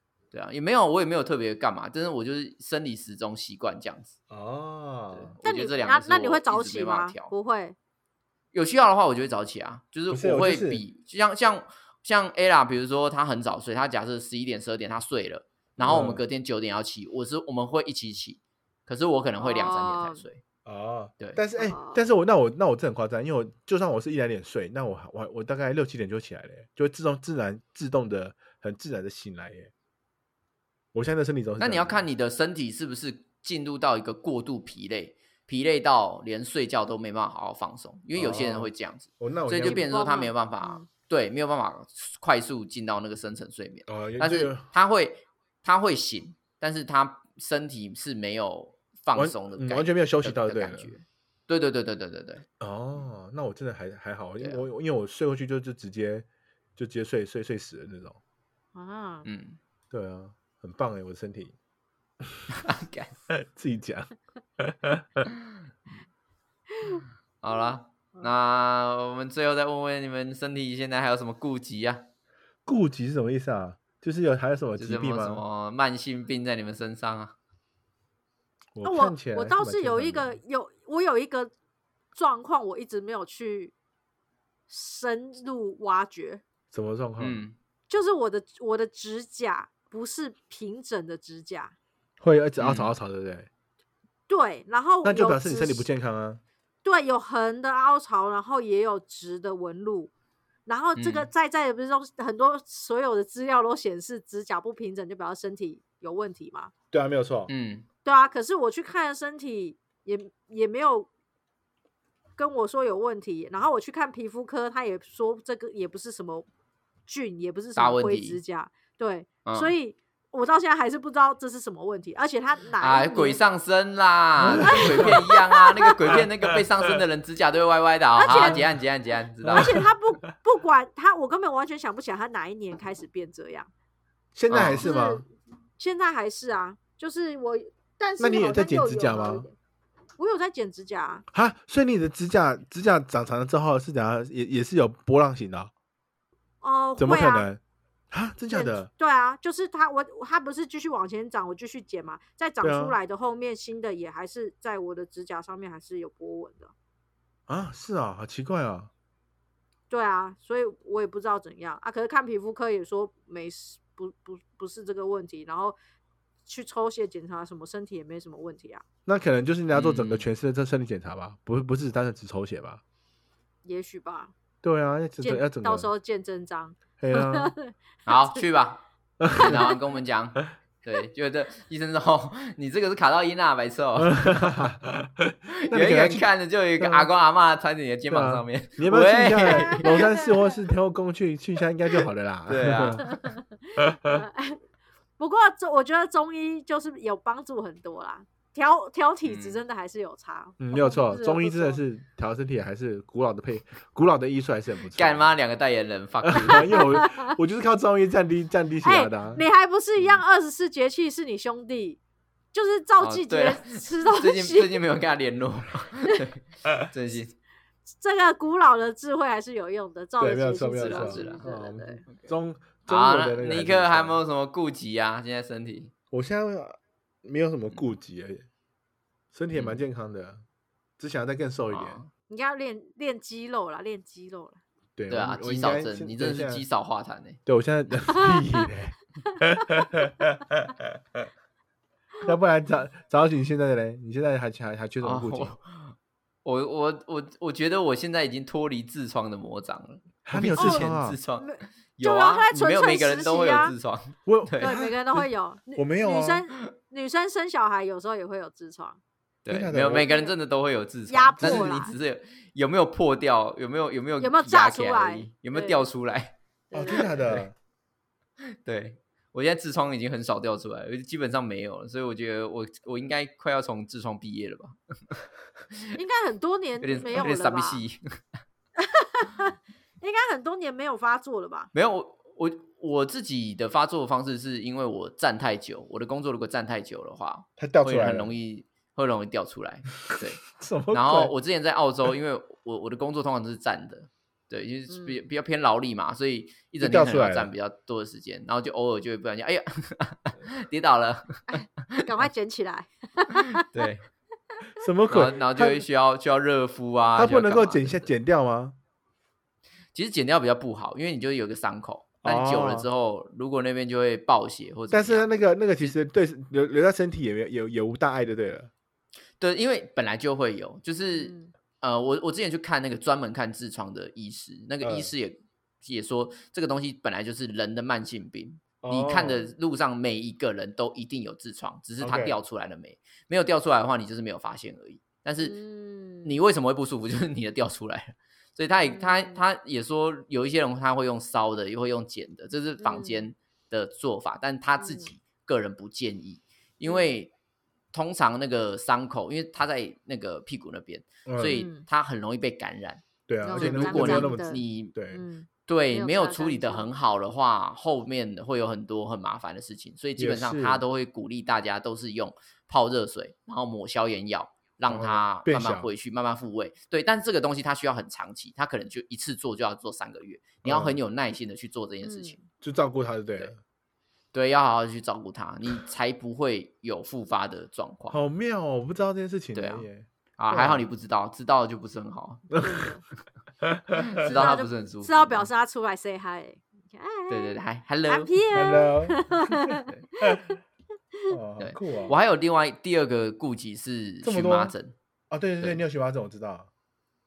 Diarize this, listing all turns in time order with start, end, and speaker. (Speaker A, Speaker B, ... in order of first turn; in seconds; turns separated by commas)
Speaker A: 0.3-4.1, Speaker B: 4.3-5.3, Speaker A: 5.1-7.3, Speaker C: 5.4-7.8, Speaker A: 8.5-20.4, Speaker B: 10.1-10.8, Speaker B: 15.8-16.2, Speaker C: 19.4-20.2, Speaker B: 20.6-29.7, Speaker C: 21.6-22.0, Speaker B: 30.9-32.0, Speaker A: 31.6-52.5, Speaker B: 38.1-39.9, Speaker C: 39.6-40.9, Speaker B: 43.9-44.6, Speaker B: 49.1-50.9, Speaker B: 52.6-58.2, Speaker C: 58.8-59.3, Speaker A: 59.2-59.6, Speaker B: 59.9-61.5, Speaker A: 62.6-63.1, Speaker B: 63.3-65.3, Speaker A: 67.4-72.1, Speaker B: 72.7-75.4, Speaker A: 74.8-77.3, Speaker B: 78.8-80.4, Speaker C: 78.8-81.5, Speaker C: 82.2-83.7, Speaker C: 84.7-86.4, Speaker B: 86.7-87.4, Speaker A: 87.2-87.5, Speaker C: 87.9-91.8, Speaker B: 92.2-93.5, Speaker A: 92.6-92.9, Speaker C: 94.3-95.9, Speaker B: 95.0-96.4, Speaker C: 96.8-100.1, Speaker C: 100.7-106.7, Speaker A: 101.0-101.3, Speaker B: 106.9-107.5, Speaker A: 107.5-107.9, Speaker C: 108.0-111.1, Speaker C: 112.4-116.5, Speaker C: 117.1-123.4, Speaker A: 117.8-118.4, Speaker A: 119.5-119.7, Speaker A: 122.8-129.8, Speaker B: 124.4-125.2, Speaker C: 124.5-125.9, Speaker B: 126.0-127.0, Speaker C: 128.2-128.6, Speaker B: 128.3-128.7, Speaker B: 129.4-129.9, Speaker C: 129.5-133.7, Speaker B: 134.3-135.2, Speaker A: 134.5-134.9, Speaker C: 134.8-135.2, Speaker C: 135.8-139.5, Speaker B: 138.2-139.5, Speaker C: 140.2-141.2, Speaker B: 141.3-145.7, Speaker C: 146.6-147.5, Speaker B: 147.0-147.6, Speaker B: 148.1-148.9, Speaker C: 148.5-156.7, Speaker B: 152.6-153.0, Speaker B: 157.5-158.9, Speaker C: 159.9-165.8, Speaker C: 166.5-168.8, Speaker B: 169.1-172.8, Speaker A: 169.7-170.3, Speaker C: 173.7-174.3, Speaker B: 174.6-175.9, Speaker C: 175.2-177.7, Speaker B: 177.0-177.5, Speaker A: 178.1-184.4, Speaker B: 179.2-179.7, Speaker B: 184.0-187.1, Speaker A: 185.7-190.1, Speaker B: 188.1-193.1, Speaker C: 189.4-190.2, Speaker A: 192.5-193.3, Speaker C: 193.1-194.6, Speaker B: 193.8-194.2, Speaker C: 195.2-201.8, Speaker A: 199.2-199.6, Speaker B: 200.6-205.3, Speaker A: 204.9-206.9, Speaker B: 206.2-209.4, Speaker C: 206.7-207.3, Speaker C: 208.8-212.0, Speaker C: 212.5-214.8, Speaker A: 213.0-217.3, Speaker C: 218.0-222.0, Speaker B: 220.2-224.2, Speaker A: 220.8-221.5, Speaker A: 222.9-225.9, Speaker B: 226.1-228.5, Speaker B: 229.3-230.4, Speaker A: 229.5-229.8, Speaker B: 231.0-232.0, Speaker A: 231.7-232.1, Speaker C: 232.3-234.6, Speaker B: 235.0-236.6, Speaker A: 235.1-237.4, Speaker B: 237.5-241.2, Speaker B: 242.2-245.5, Speaker A: 245.0-254.8, Speaker B: 250.2-251.2, Speaker C: 250.6-253.8, Speaker B: 254.3-256.5, Speaker C: 254.6-259.0, Speaker A: 259.4-266.4, Speaker B: 259.5-260.2, Speaker C: 260.0-260.3, Speaker C: 261.1-262.0, Speaker B: 261.4-261.7, Speaker C: 264.2-265.9, Speaker C: 266.7-267.1, Speaker B: 266.7-267.6, Speaker A: 266.9-267.4, Speaker A: 268.5-275.8, Speaker C: 275.9-277.8, Speaker A: 276.8-278.0, Speaker C: 278.8-281.7, Speaker A: 281.7-302.0, Speaker B: 287.6-288.3, Speaker B: 290.1-291.3, Speaker C: 294.9-295.2, Speaker B: 296.8-297.5, Speaker C: 301.5-303.7, Speaker A: 303.6-304.1, Speaker B: 304.8-305.8, Speaker A: 305.1-308.0, Speaker B: 307.2-308.8, Speaker A: 309.9-315.3, Speaker B: 312.2-312.9, Speaker B: 314.9-318.7, Speaker A: 319.4-335.6, Speaker C: 321.1-321.5, Speaker B: 324.8-325.1, Speaker B: 328.8-329.5, Speaker B: 332.0-332.4, Speaker C: 335.4-336.4, Speaker A: 336.2-347.3, Speaker C: 338.8-339.4, Speaker C: 342.8-343.3, Speaker C: 344.8-345.1, Speaker C: 346.9-347.2, Speaker A: 347.9-354.9, Speaker B: 351.3-351.6, Speaker C: 351.5-351.9, Speaker B: 353.3-355.2, Speaker C: 353.4-356.9, Speaker A: 355.7-372.4, Speaker B: 360.2-360.8, Speaker B: 364.9-365.9, Speaker B: 370.6-371.0, Speaker C: 372.0-372.4, Speaker B: 372.6-373.6, Speaker A: 374.3-378.2, Speaker B: 378.1-380.9, Speaker A: 379.6-379.9, Speaker A: 380.4-382.5, Speaker B: 382.5-382.8, Speaker C: 382.6-383.0, Speaker B: 383.6-384.6, Speaker A: 384.1-385.5, Speaker C: 384.2-387.5, Speaker A: 387.3-388.4, Speaker C: 388.1-390.6, Speaker B: 388.5-390.4, Speaker B: 391.3-392.1, Speaker A: 391.6-394.9, Speaker B: 394.2-394.7, Speaker B: 395.3-396.7